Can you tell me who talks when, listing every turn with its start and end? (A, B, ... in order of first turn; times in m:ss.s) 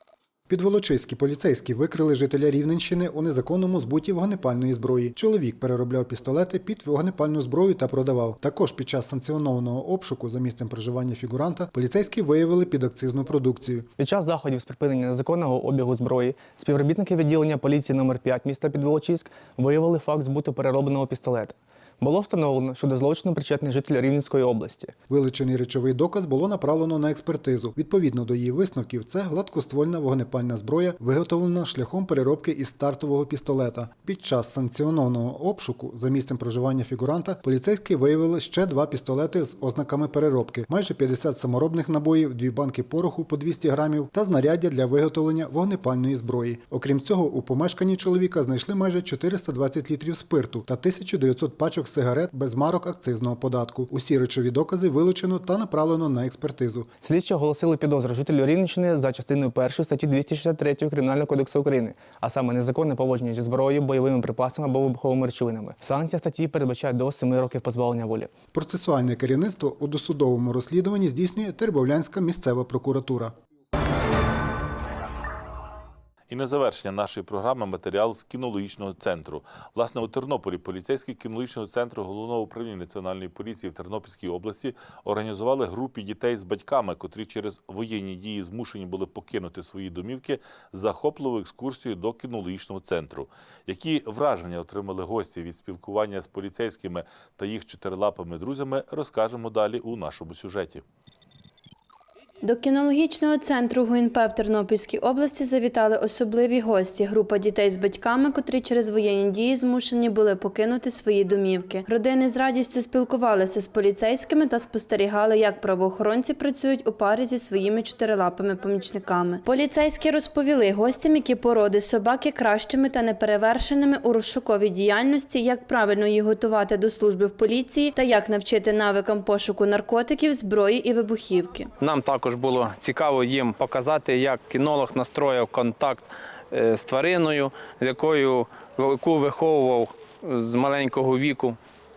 0:00.5-0:13.9 A
0:14.0-0:24.9 B
0:25.1-0:56.9 A
0:57.0-1:08.3 B
1:08.5-1:13.3 A
1:16.3-1:40.8 C
1:42.4-2:11.7 D
2:11.8-2:21.6 E